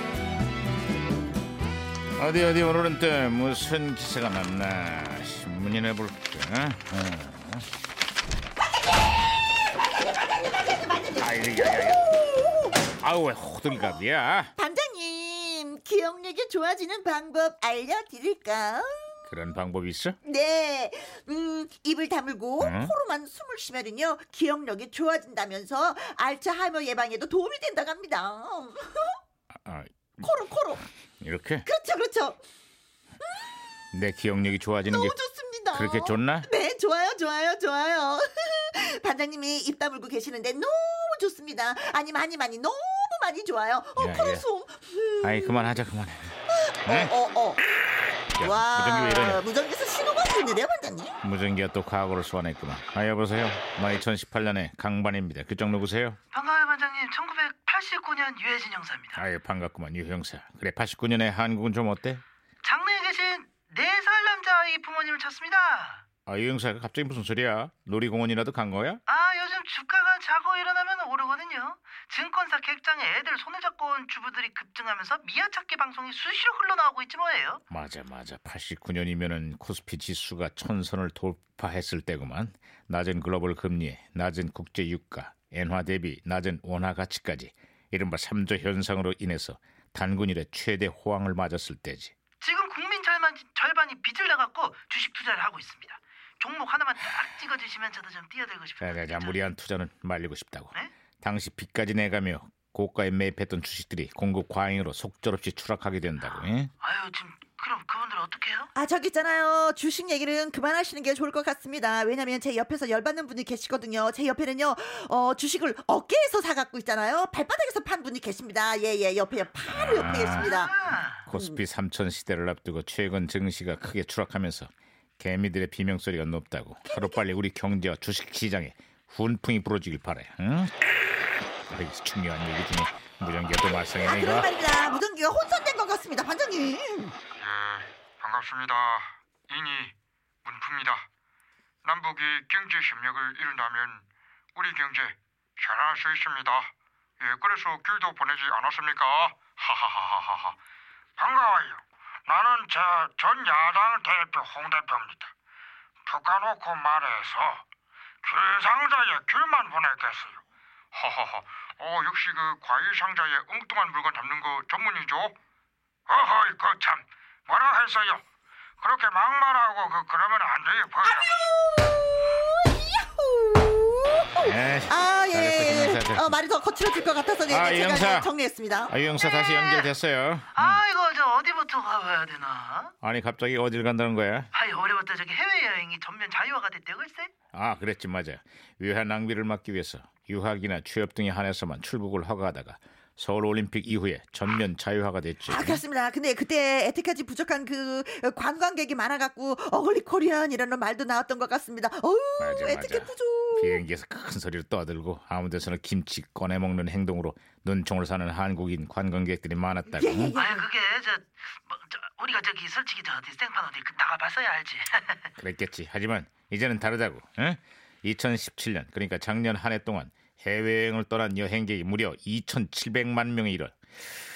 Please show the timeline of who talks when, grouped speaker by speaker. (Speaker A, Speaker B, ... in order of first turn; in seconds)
Speaker A: 2.1-7.7, 11.2-12.1, 13.0-14.5, 19.3-20.2, 22.6-22.9, 29.6-30.2, 31.2-31.6, 33.9-35.1, 35.7-36.5, 44.0-44.4, 45.2-47.1, 48.4-49.4, 51.2-56.2, 59.1-62.2, 66.2-69.0, 77.7-92.1, 98.8-106.7, 119.7-120.5, 121.2-130.7, 131.7-134.5, 174.4-176.4, 177.5-178.3, 178.9-180.8, 183.0-184.5, 187.5-195.8, 202.4-210.3, 215.4-223.8
Speaker B: 10.0-12.8, 14.6-19.2, 20.2-29.2, 30.2-30.8, 31.6-32.4, 34.9-45.8, 46.5-47.6, 48.4-51.2, 108.7-120.7, 121.3-121.6, 126.9-127.2, 134.0-137.1, 171.0-179.1, 195.5-203.8, 209.9-210.7
Speaker C: 56.3-59.2, 62.6-66.0, 69.1-77.6, 92.4-99.4, 106.2-108.7, 120.2-121.2, 179.2-179.9, 180.5-182.9, 184.5-187.3, 210.3-215.3
Speaker D: 137.3-141.1, 141.8-150.6, 151.2-155.3, 156.1-157.6, 158.2-165.3, 166.1-168.2, 168.8-171.4